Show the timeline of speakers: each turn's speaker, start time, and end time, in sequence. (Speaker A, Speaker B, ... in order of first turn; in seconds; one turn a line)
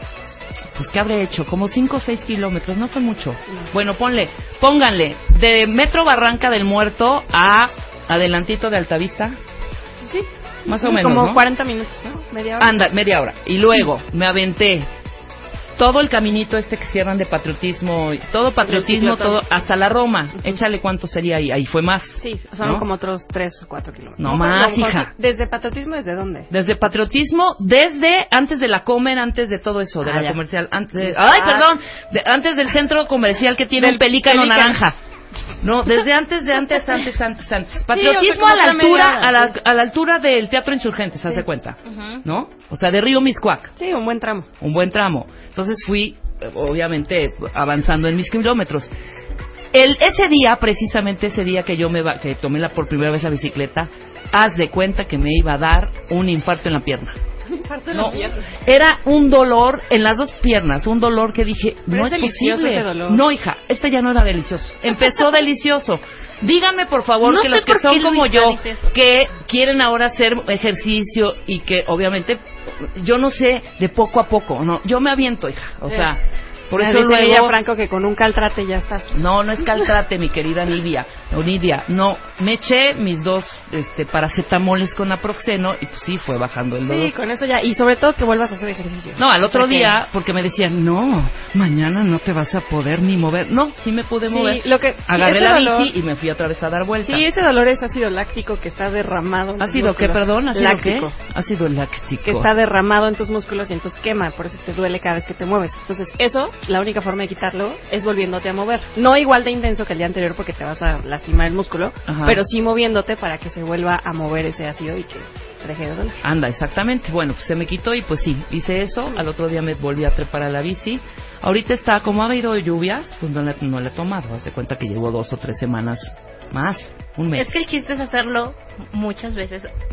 Speaker A: 0.8-9.4
Speaker B: 10.0-12.8
Speaker A: 10.7-11.4
Speaker A: 12.6-14.9
Speaker A: 15.8-22.9
Speaker B: 18.6-19.4
Speaker B: 22.2-26.5
Speaker A: 24.2-25.1
Speaker A: 26.5-35.0
Speaker B: 30.0-30.4
Speaker B: 31.0-31.7
Speaker B: 33.8-34.8
Speaker A: 35.6-43.7
Speaker B: 37.9-39.5
Speaker B: 43.8-44.5
Speaker A: 44.6-48.9
Speaker A: 49.7-57.2
Speaker B: 57.6-58.4
Speaker A: 57.9-72.4
Speaker B: 61.9-63.2
Speaker C: 67.2-68.8
Speaker A: 73.0-77.6
Speaker B: 76.7-79.2
Speaker A: 79.1-87.1
Speaker B: 86.9-90.0
Speaker A: 89.2-97.3
Speaker B: 94.2-95.9
Speaker B: 97.0-101.1
Speaker A: 99.6-102.5
Speaker B: 102.2-116.2
Speaker A: 112.1-112.4
Speaker A: 116.2-127.5
Speaker C: 127.4-129.7